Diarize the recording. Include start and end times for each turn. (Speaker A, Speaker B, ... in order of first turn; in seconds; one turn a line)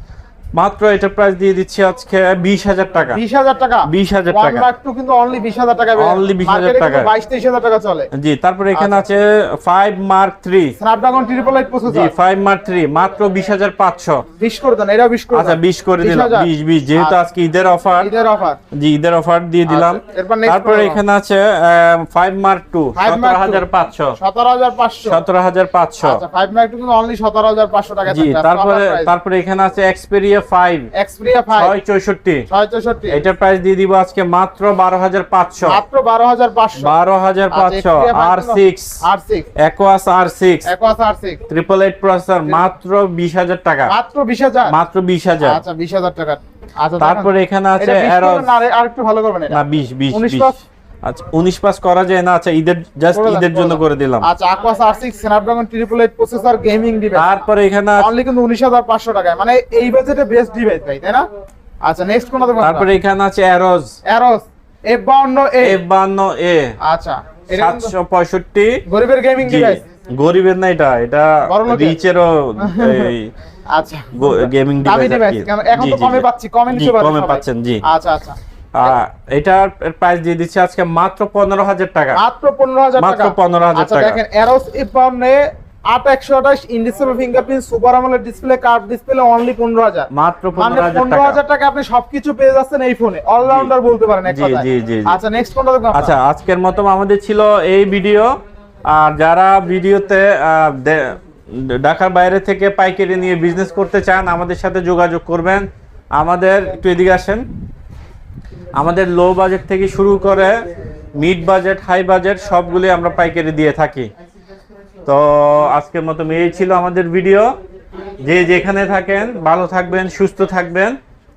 Speaker A: 0.6-3.2
Speaker B: 3.1-8.1
Speaker A: 3.9-4.7
Speaker A: 6.0-7.1
Speaker A: 8.1-10.8
Speaker B: 8.7-9.1
Speaker B: 10.8-12.1
Speaker A: 11.9-14.2
Speaker B: 14.4-17.2
Speaker A: 15.3-18.1
Speaker B: 18.0-18.6
Speaker A: 18.7-24.1
Speaker B: 19.7-21.0
Speaker B: 23.0-23.6
Speaker B: 24.1-25.2
Speaker A: 25.1-26.2
Speaker B: 26.0-29.1
Speaker A: 28.1-30.9
Speaker B: 30.9-31.8
Speaker A: 31.6-32.5
Speaker B: 32.5-33.2
Speaker A: 33.1-35.8
Speaker B: 35.6-36.9
Speaker A: 36.8-39.0
Speaker B: 37.5-39.5
Speaker A: 39.6-40.7
Speaker B: 40.7-41.4
Speaker A: 41.5-43.9
Speaker B: 43.9-44.8
Speaker A: 44.7-45.6
Speaker B: 45.4-49.6
Speaker A: 47.0-48.5
Speaker A: 49.5-50.5
Speaker B: 50.1-50.6
Speaker A: 51.0-54.3
Speaker B: 53.1-57.3
Speaker A: 57.1-58.1
Speaker B: 58.0-61.3
Speaker B: 61.8-62.9
Speaker A: 62.6-63.9
Speaker B: 64.1-65.8
Speaker A: 65.6-66.8
Speaker B: 66.8-67.9
Speaker A: 67.6-68.8
Speaker B: 68.9-69.8
Speaker A: 69.4-73.3
Speaker B: 71.5-72.0
Speaker B: 72.6-73.1
Speaker B: 73.7-78.9
Speaker A: 74.1-77.8
Speaker A: 78.8-82.2
Speaker B: 82.2-96.1
Speaker A: 83.0-84.2
Speaker A: 90.1-91.4
Speaker A: 93.4-93.7
Speaker A: 94.2-95.2
Speaker A: 95.9-98.3
Speaker A: 98.9-107.4
Speaker A: 108.8-110.6
Speaker A: 111.2-114.1
Speaker A: 115.1-117.5
Speaker A: 118.2-121.0